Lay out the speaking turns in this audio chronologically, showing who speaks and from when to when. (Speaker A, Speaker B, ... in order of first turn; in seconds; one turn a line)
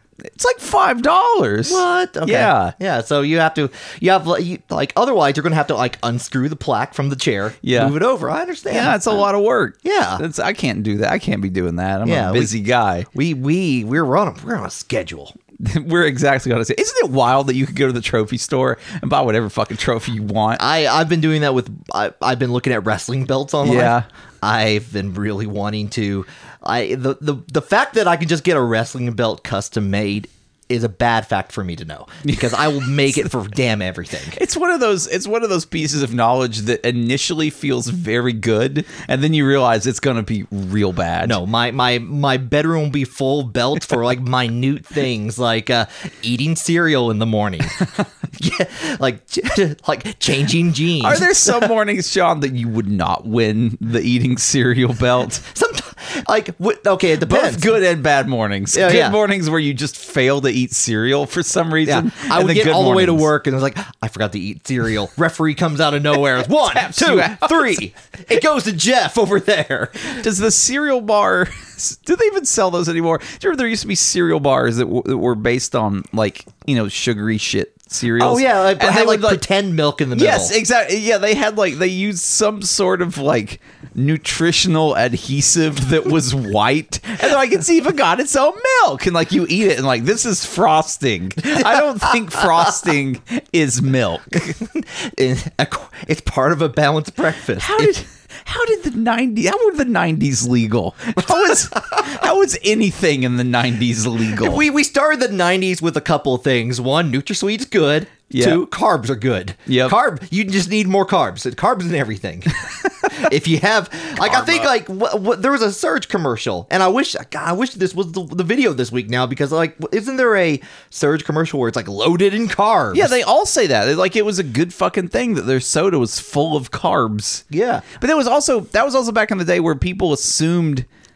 Speaker A: 0.2-2.7
Speaker B: 1.6-9.2
Speaker A: 7.6-8.0
Speaker A: 8.7-13.1
Speaker B: 9.8-10.2
Speaker B: 12.0-12.5
Speaker B: 13.1-15.3
Speaker A: 15.6-20.6
Speaker B: 20.6-34.4
Speaker A: 23.6-24.1
Speaker A: 32.3-32.8
Speaker A: 34.3-41.4
Speaker B: 41.2-51.7
Speaker A: 51.0-55.4
Speaker B: 55.4-57.7
Speaker A: 57.2-63.3
Speaker B: 58.7-59.2
Speaker B: 61.8-70.2
Speaker A: 66.4-67.9
Speaker A: 70.0-79.4
Speaker B: 78.2-80.5
Speaker A: 80.1-94.6
Speaker B: 94.6-97.9
Speaker A: 97.6-104.6
Speaker B: 104.3-123.1
Speaker A: 108.3-108.6
Speaker A: 109.7-109.9
Speaker A: 114.2-114.7
Speaker A: 122.9-130.9
Speaker B: 127.5-127.8